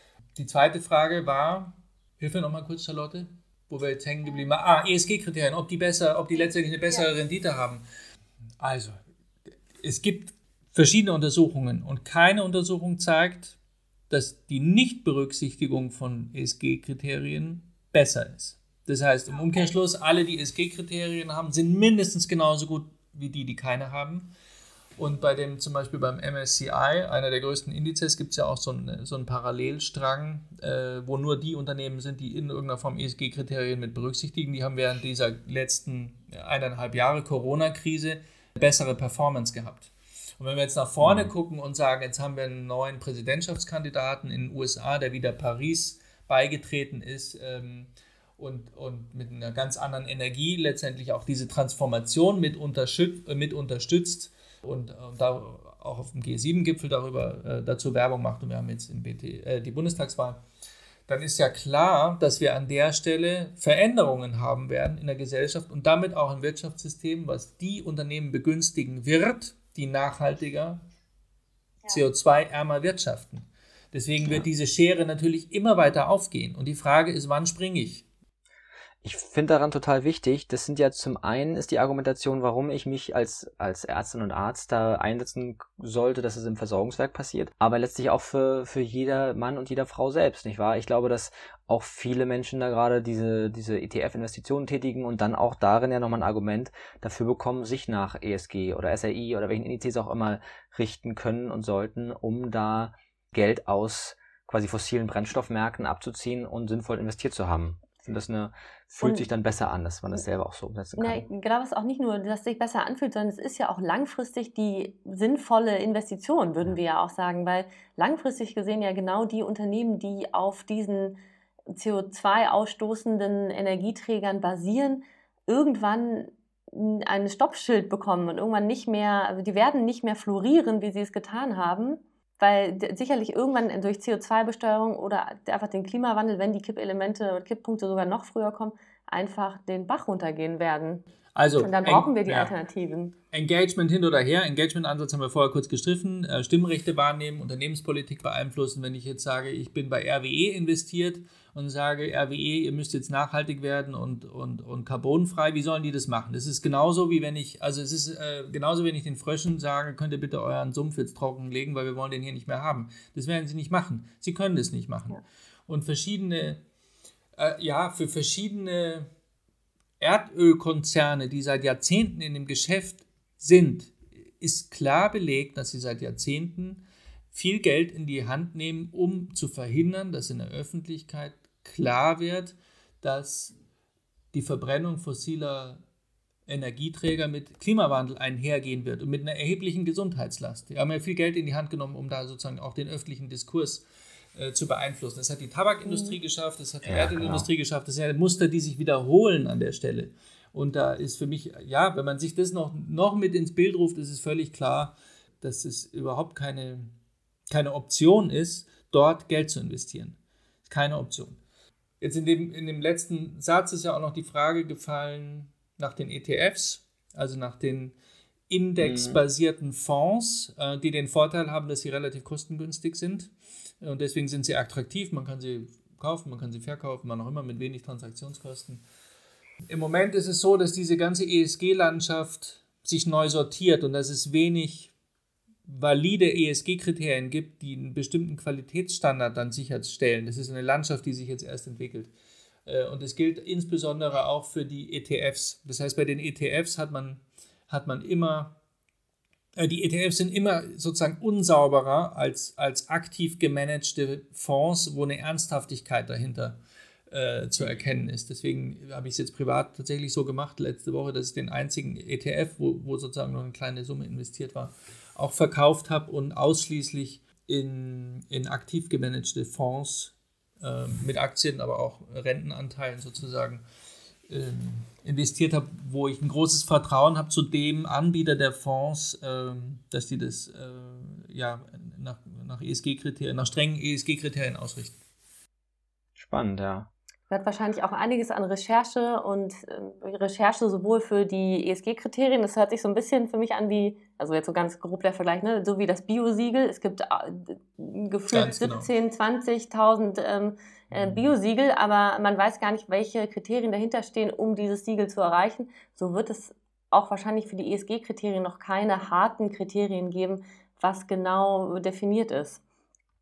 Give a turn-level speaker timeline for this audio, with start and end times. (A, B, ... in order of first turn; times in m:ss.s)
0:00.4-0:07.8 A
0:08.6-0:09.0 A
0:09.8-0:13.6 A
0:14.1-0:24.3 A
0:25.0-1:00.4 A
0:41.0-0:41.3 B
1:01.1-1:10.8 A
1:11.9-1:18.0 A
1:19.0-1:51.3 B
1:51.0-2:01.2 C
2:01.7-2:21.0 C
2:21.4-2:22.5 A
2:21.6-2:23.1 C
2:23.3-2:46.6 A
2:47.4-2:49.1 A
2:50.0-3:03.6 A
3:04.3-3:05.8 A
3:06.5-3:26.9 A
3:16.8-3:17.5 B
3:27.5-3:31.4 A
3:32.0-3:38.0 A
3:38.5-3:48.8 A
3:38.8-3:39.2 B
3:49.7-3:54.9 A
3:55.7-4:02.1 A
4:02.7-4:08.6 A
4:09.6-4:16.6 A
4:17.1-4:33.6 A
4:34.3-4:45.0 A
4:46.2-4:46.9 B
4:47.3-5:12.6 C
4:58.3-4:58.9 A